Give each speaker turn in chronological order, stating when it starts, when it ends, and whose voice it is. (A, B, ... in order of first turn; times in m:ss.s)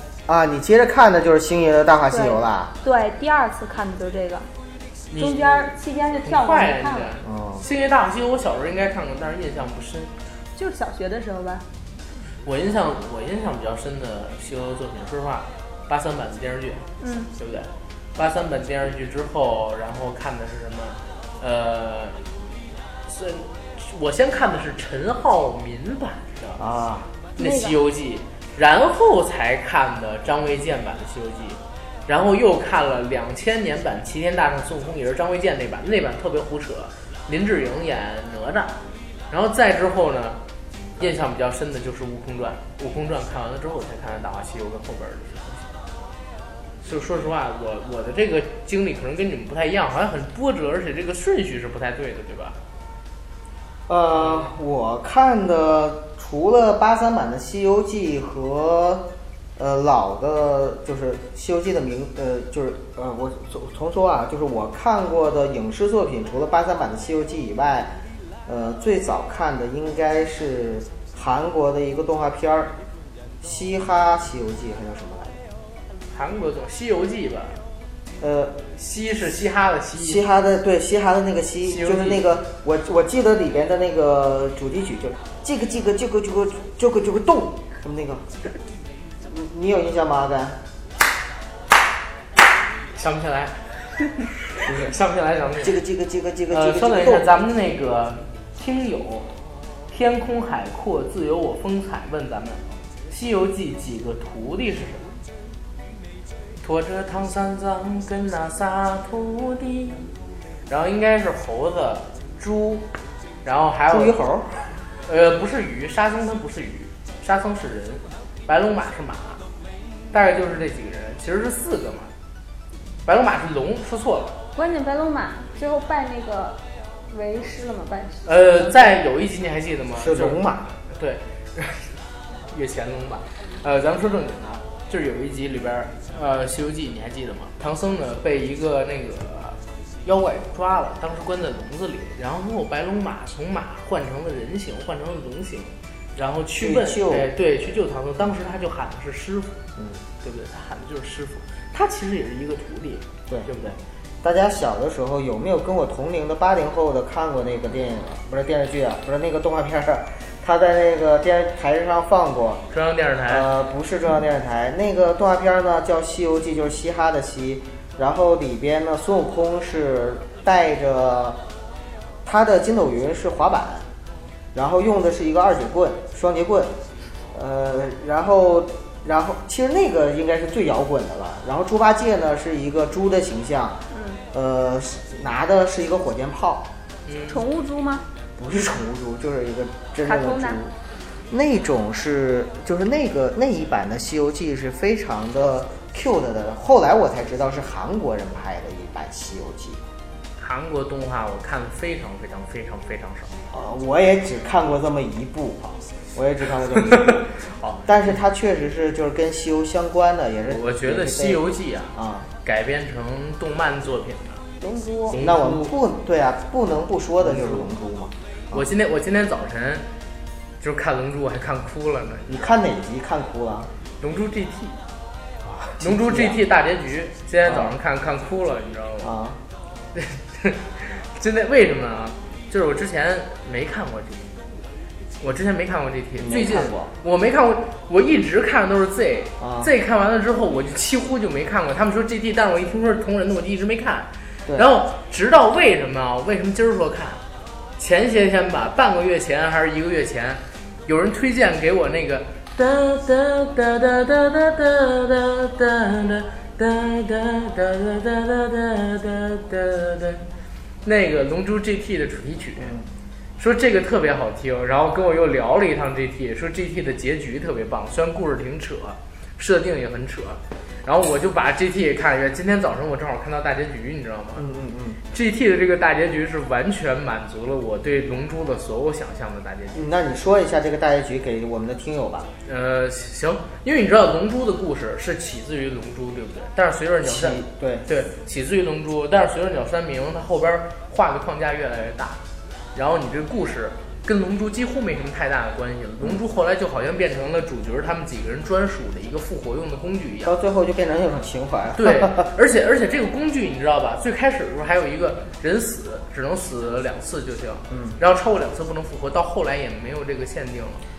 0:00.3-0:02.7 A
0:02.1-0:04.5 B
0:05.1-0:10.1 C
0:05.2-0:07.1 B
0:07.2-0:07.6 A
0:10.6-0:11.6 B
0:12.4-0:22.2 C
0:17.0-0:17.3 B
0:23.1-0:26.6 C
0:26.6-0:27.1 A
0:27.4-0:27.8 B
0:27.4-0:38.8 C
0:39.3-0:40.4 C
0:41.0-0:45.7 C
0:46.8-0:52.6 C
0:53.9-1:12.7 A
0:54.1-0:54.5 C
1:13.4-1:15.4 A
1:16.1-1:17.6 C
1:18.2-1:18.6 A
1:18.8-1:20.2 C
1:20.0-1:28.3 A
1:21.6-1:22.3 C
1:29.2-1:30.6 A
1:32.9-1:35.8 C
1:34.6-1:34.9 A
1:35.6-1:37.3 A
1:36.5-1:39.3 C
1:39.9-1:45.1 C
1:46.6-1:50.1 C
1:50.7-1:52.9 C
1:53.4-1:54.2 C
1:53.9-1:54.7 A
1:55.0-1:59.4 C
2:00.1-2:02.1 C
2:03.0-2:04.4 C
2:04.6-2:08.9 B
2:08.2-2:12.0 C
2:10.0-2:10.7 A
2:12.5-2:29.6 C
2:26.6-2:27.3 A
2:30.2-2:33.8 C
2:34.2-2:42.6 A
2:42.7-2:43.5 C
2:43.3-2:51.4 A
2:52.2-2:53.8 A
2:54.5-2:56.8 A
2:57.3-3:03.8 A
3:03.9-3:04.2 B
3:04.3-3:06.7 A
3:07.0-3:07.4 C
3:07.3-3:08.0 B
3:08.4-3:10.7 A
3:10.0-3:10.6 B
3:11.3-3:19.8 A
3:20.4-3:23.3 C
3:23.5-3:27.3 A
3:26.9-3:27.8 C
3:27.8-3:31.4 A
3:30.5-3:34.4 C
3:31.9-3:32.3 A
3:34.6-3:35.2 B
3:35.1-3:35.7 C
3:35.2-3:38.6 A
3:37.2-3:37.7 C
3:38.5-3:39.8 C
3:40.6-3:42.5 C
3:42.3-3:43.7 A
3:44.0-3:44.8 C
3:45.4-3:46.4 A
3:45.8-3:49.1 C
3:47.4-3:47.7 A
3:49.0-3:49.4 A
3:49.9-3:54.3 C
3:55.2-4:07.2 C
3:56.2-3:56.9 A
3:59.4-3:59.7 A
4:07.8-4:20.2 C
4:20.8-4:22.7 C
4:22.6-4:22.9 A
4:23.4-4:34.4 C
4:34.4-4:35.0 A
4:35.1-4:39.8 C
4:39.7-4:42.3 A
4:42.4-4:52.2 C
4:47.0-4:47.9 A
4:52.7-5:00.3 C
5:00.2-5:02.3 A
5:01.8-5:10.8 C
5:07.7-5:08.0 A